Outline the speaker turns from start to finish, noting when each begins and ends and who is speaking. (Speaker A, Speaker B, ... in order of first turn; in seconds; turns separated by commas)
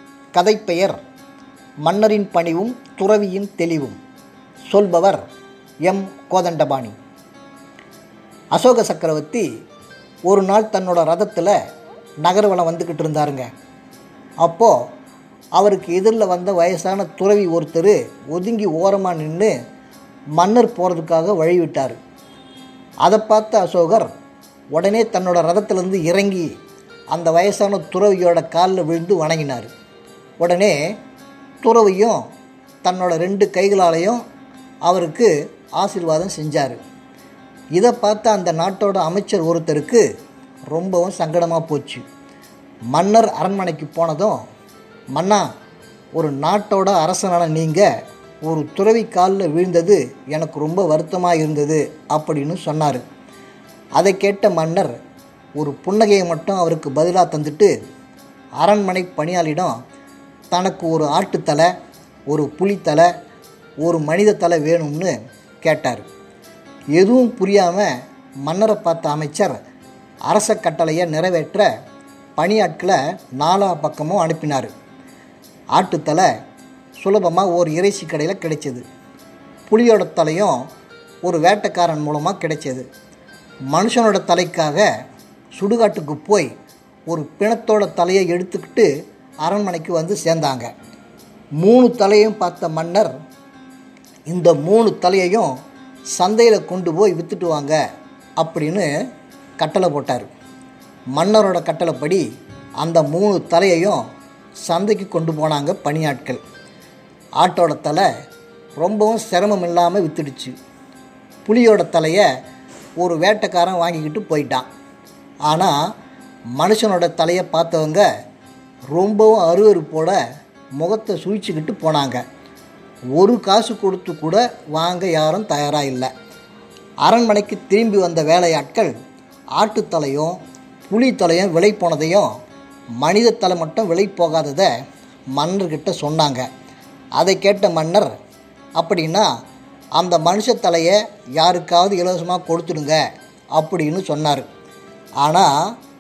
Speaker A: 0.3-1.0, Speaker A: 1.9-4.0, Speaker A: 4.7-5.2, Speaker A: 5.9-7.0, Speaker A: 8.5-9.5, Speaker A: 10.3-11.5, Speaker A: 12.2-13.5, Speaker A: 14.4-14.7, Speaker A: 15.6-19.5, Speaker A: 20.4-22.0, Speaker A: 23.0-24.1, Speaker A: 24.8-26.5, Speaker A: 27.1-29.7, Speaker A: 30.4-30.8, Speaker A: 31.6-32.2, Speaker A: 32.8-34.2, Speaker A: 34.9-36.8, Speaker A: 37.8-40.0, Speaker A: 40.7-42.0, Speaker A: 42.9-44.4, Speaker A: 45.1-45.5, Speaker A: 46.2-47.9, Speaker A: 48.4-53.0, Speaker A: 54.0-54.9, Speaker A: 55.6-57.7, Speaker A: 58.6-59.7, Speaker A: 60.5-61.7, Speaker A: 62.3-63.1, Speaker A: 63.8-66.1, Speaker A: 67.0-67.9, Speaker A: 68.5-69.6, Speaker A: 70.3-71.7, Speaker A: 72.4-74.7, Speaker A: 75.7-76.3, Speaker A: 77.0-78.8, Speaker A: 79.7-80.6, Speaker A: 81.2-82.8, Speaker A: 83.7-84.8, Speaker A: 85.6-86.5, Speaker A: 87.1-88.9, Speaker A: 89.4-90.7, Speaker A: 91.6-93.1, Speaker A: 94.3-95.5, Speaker A: 96.2-97.8, Speaker A: 98.4-98.9, Speaker A: 99.6-100.3, Speaker A: 101.2-102.2, Speaker A: 102.8-104.0, Speaker A: 104.7-106.4, Speaker A: 107.4-108.1, Speaker A: 108.8-110.5, Speaker A: 111.5-112.3, Speaker A: 113.0-114.7, Speaker A: 115.5-115.7, Speaker A: 116.6-118.0, Speaker A: 118.9-120.2, Speaker A: 120.8-122.2, Speaker A: 123.2-126.1, Speaker A: 127.0-128.9, Speaker A: 129.6-132.3, Speaker A: 133.0-134.7, Speaker A: 135.4-136.5, Speaker A: 137.2-138.1, Speaker A: 138.8-139.3, Speaker A: 140.0-143.0, Speaker A: 143.6-144.5, Speaker A: 145.2-145.5